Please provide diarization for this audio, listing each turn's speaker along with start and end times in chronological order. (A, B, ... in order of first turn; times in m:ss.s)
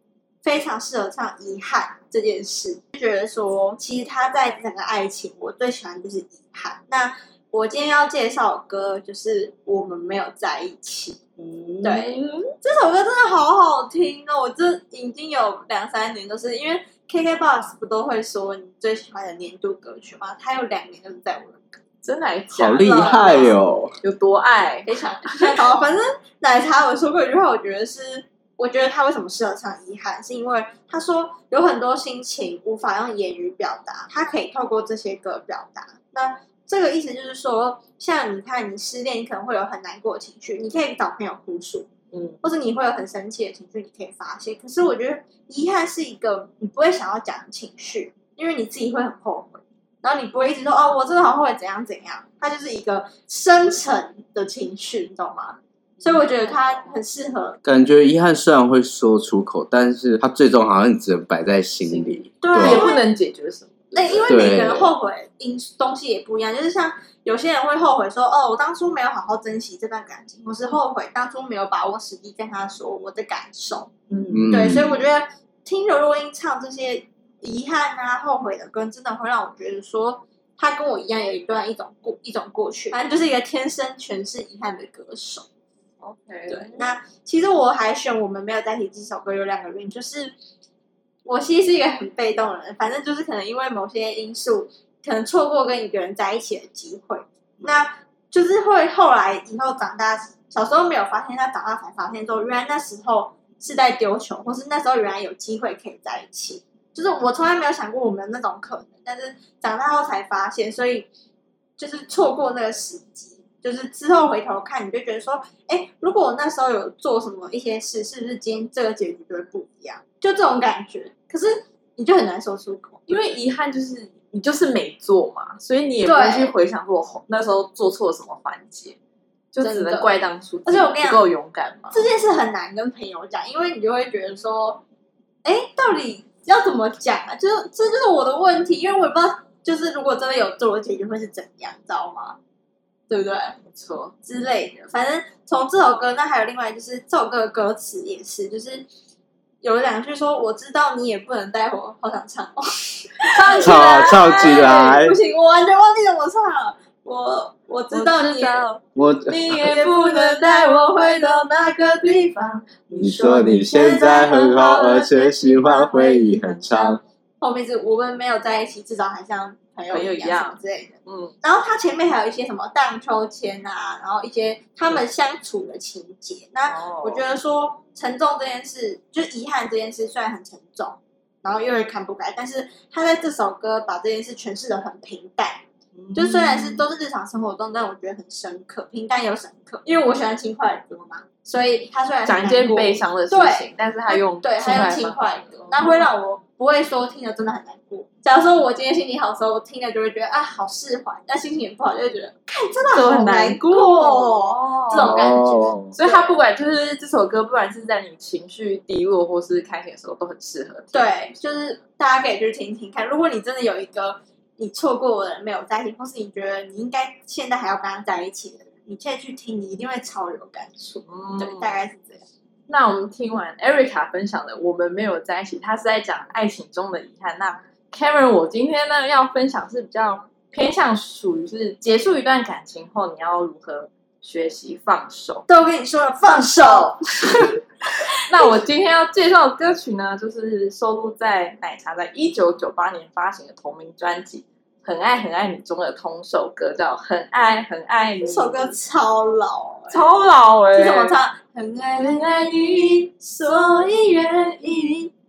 0:00.4-0:11.2 A
0:11.4-0:12.5 B
0:11.8-0:21.6 A
0:22.0-0:25.6 B
0:22.5-0:24.0 C
0:22.8-0:23.6 A
0:24.8-0:41.9 A
0:42.1-0:42.4 B
0:42.4-0:57.6 A
0:56.0-0:56.8 B
0:57.6-1:02.9 C
1:01.8-1:04.3 B
1:02.4-1:03.1 A
1:03.9-1:13.9 A
1:04.3-1:04.9 C
1:14.1-1:14.5 B
1:14.3-1:15.0 C
1:14.5-1:25.4 A
1:26.0-1:26.9 B
1:26.5-1:30.3 A
1:31.2-1:51.1 A
1:51.8-2:03.1 A
2:03.1-2:09.0 B
2:06.0-2:06.5 A
2:09.5-2:12.0 B
2:09.6-2:10.1 A
2:10.6-2:11.2 A
2:11.9-2:14.8 A
2:15.4-2:22.4 A
2:23.1-2:23.6 A
2:23.6-2:24.1 B
2:24.2-2:28.9 A
2:29.6-2:38.7 A
2:33.2-2:34.9 B
2:33.6-2:35.2 C
2:37.9-2:41.4 B
2:39.0-2:39.5 C
2:39.5-2:42.6 A
2:42.0-2:44.0 B
2:43.0-2:47.0 C
2:43.2-2:46.4 A
2:44.5-2:47.0 B
2:47.4-3:26.4 A
2:49.9-2:51.3 B
2:56.7-2:57.2 B
3:05.9-3:06.8 B
3:12.2-3:16.1 B
3:22.9-3:25.2 B
3:24.9-3:25.9 C
3:26.0-3:30.9 B
3:30.9-3:42.2 A
3:41.0-3:41.8 B
3:42.7-3:55.4 B
3:55.5-3:58.6 A
3:56.4-3:57.4 B
3:58.3-4:08.8 B
4:08.2-4:10.1 A
4:09.9-4:11.2 B
4:10.7-4:15.1 A
4:12.0-4:13.0 B